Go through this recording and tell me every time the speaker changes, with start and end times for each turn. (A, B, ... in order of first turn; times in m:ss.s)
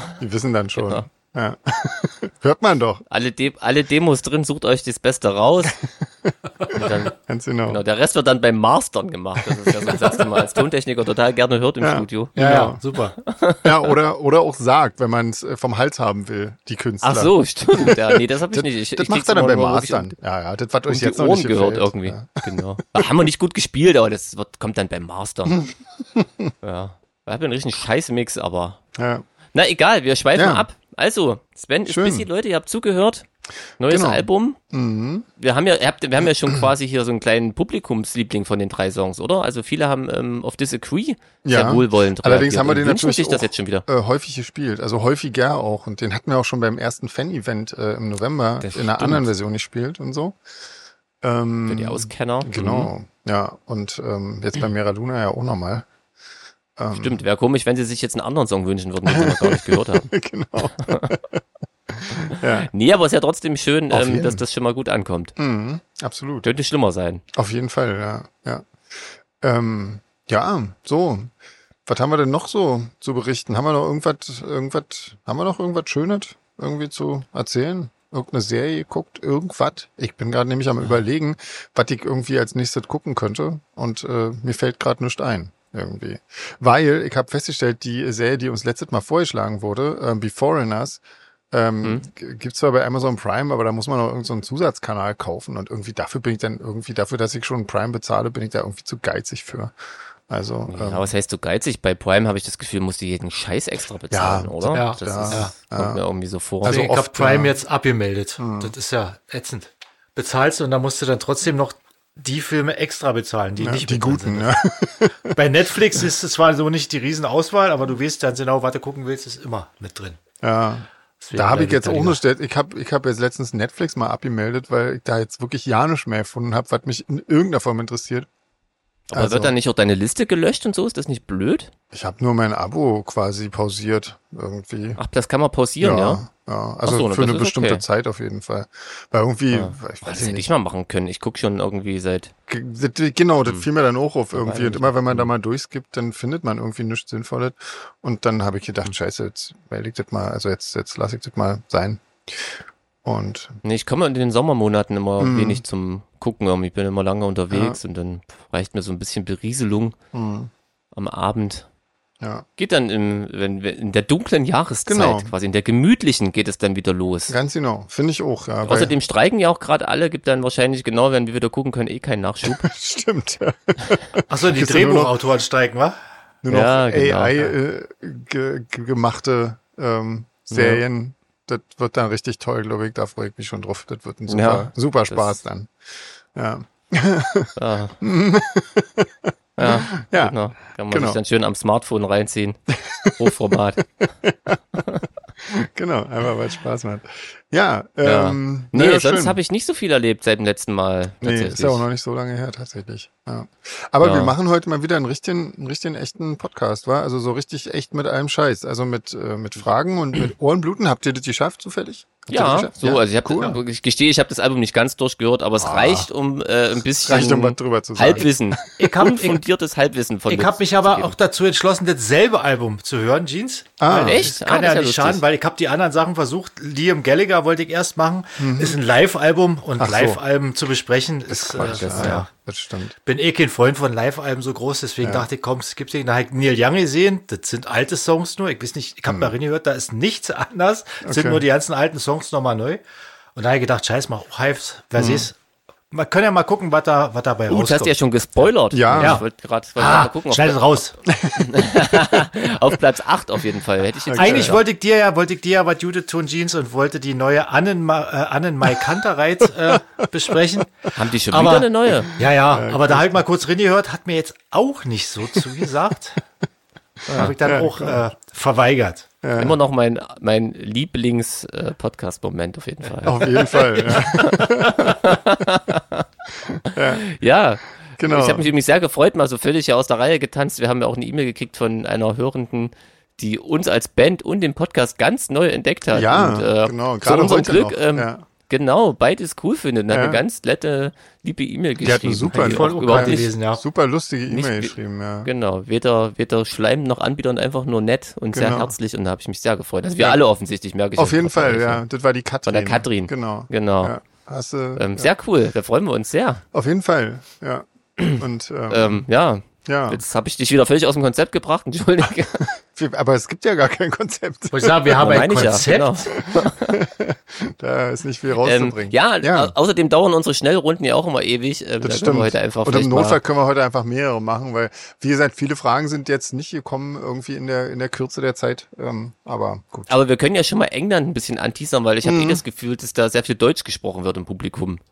0:00.2-0:03.0 A
0:00.8-0:01.0 B
0:03.1-0:05.8 B
0:06.2-0:07.8 A
0:06.7-0:12.4 B
0:09.4-0:10.3 A
0:11.8-0:12.8 A
0:12.4-0:13.2 C
0:13.2-0:13.9 B
0:13.6-0:23.1 A
0:17.0-0:20.1 B
0:20.9-0:25.7 B
0:25.6-0:26.5 A
0:26.6-0:28.8 B
0:29.0-0:29.2 A
0:29.5-0:33.2 B
0:30.3-0:30.6 A
0:31.8-0:32.2 A
0:33.8-0:34.6 B
0:33.9-0:35.2 A
0:35.4-0:43.8 B
0:41.4-0:50.4 A
0:48.6-0:49.3 B
0:51.2-0:55.8 A
0:51.7-0:52.9 B
0:56.8-0:57.2 A
0:56.9-1:00.1 B
0:59.0-1:01.4 A
1:00.7-1:01.1 B
1:01.9-1:02.7 A
1:02.5-1:05.3 B
1:03.9-1:04.4 A
1:05.4-1:06.5 A
1:06.4-1:07.2 B
1:07.3-1:08.7 A
1:09.4-1:11.3 A
1:11.8-1:31.0 A
1:31.5-1:39.7 A
1:40.3-1:41.1 A
1:40.7-1:46.8 B
1:44.1-1:46.0 A
1:44.7-1:45.5 C
1:46.6-1:47.5 A
1:46.6-1:54.6 C
1:48.4-1:48.7 A
1:53.6-1:55.4 A
1:55.3-2:00.2 C
2:00.4-2:08.3 A
2:01.2-2:02.2 C
2:09.1-2:11.7 B
2:09.1-2:09.5 A
2:11.9-2:15.0 A
2:15.0-2:16.2 B
2:15.8-2:20.4 A
2:16.8-2:17.8 B
2:19.5-2:22.3 B
2:22.5-2:33.6 A
2:24.3-2:25.3 B
2:33.6-2:40.0 B
2:35.2-2:35.6 A
2:37.5-2:37.8 A
2:40.1-2:40.5 A
2:40.9-2:41.7 B
2:42.6-2:47.4 B
2:44.9-2:45.3 A
2:47.3-2:48.9 A
2:48.6-2:52.7 B
2:52.4-2:55.1 A
2:54.3-2:56.0 C
2:56.4-3:05.7 A
2:56.5-2:57.5 B
3:00.5-3:00.8 B
3:04.3-3:05.3 B
3:06.3-3:10.4 A
3:07.6-3:08.0 B
3:09.6-3:12.6 B
3:10.9-3:11.2 A
3:12.7-3:14.6 A
3:13.2-3:13.8 B
3:14.8-3:15.0 B
3:15.4-3:19.4 A
3:18.0-3:21.8 B
3:21.2-3:33.6 A
3:24.0-3:24.3 B
3:32.3-3:41.1 B
3:35.6-3:36.1 A
3:37.0-3:38.7 A
3:38.8-3:39.4 C
3:40.3-3:52.3 C
3:43.8-3:44.3 A
3:43.9-3:45.2 B
3:48.4-3:48.8 A
3:49.8-3:50.2 A
3:51.3-3:52.9 A
3:51.6-3:52.2 B
3:53.0-4:02.8 C
3:55.0-3:55.3 A
4:01.0-4:01.4 A
4:03.3-4:05.3 C
4:05.0-4:05.3 A
4:05.9-4:08.0 C
4:07.5-4:10.6 B
4:08.7-4:09.2 A
4:08.9-4:09.2 C
4:09.8-4:11.0 C
4:11.1-4:11.7 A
4:11.3-4:14.6 B
4:14.0-4:14.6 A
4:14.1-4:26.2 C
4:20.9-4:22.2 B
4:22.5-4:23.2 A
4:27.1-4:29.1 C
4:27.2-4:28.0 A
4:29.2-4:29.6 A
4:29.4-4:36.1 B
4:33.0-4:35.2 A
4:36.5-4:37.0 A
4:36.6-4:53.3 B
4:38.0-4:38.5 A
4:45.9-4:48.2 A
4:49.9-4:50.2 A
4:51.8-4:55.3 A
4:52.3-4:53.6 C
4:54.3-5:01.8 B
4:58.3-4:58.7 A
5:01.0-5:05.1 A
5:02.4-5:04.0 B
5:04.8-5:06.4 B
5:06.5-5:09.0 A
5:08.0-5:12.5 B
5:09.6-5:10.0 A
5:12.4-5:15.2 A
5:14.5-5:16.0 C
5:15.0-5:16.8 B
5:16.1-5:19.5 A
5:18.4-5:23.2 B
5:21.8-5:29.9 A
5:29.9-5:34.8 B
5:32.0-5:32.4 A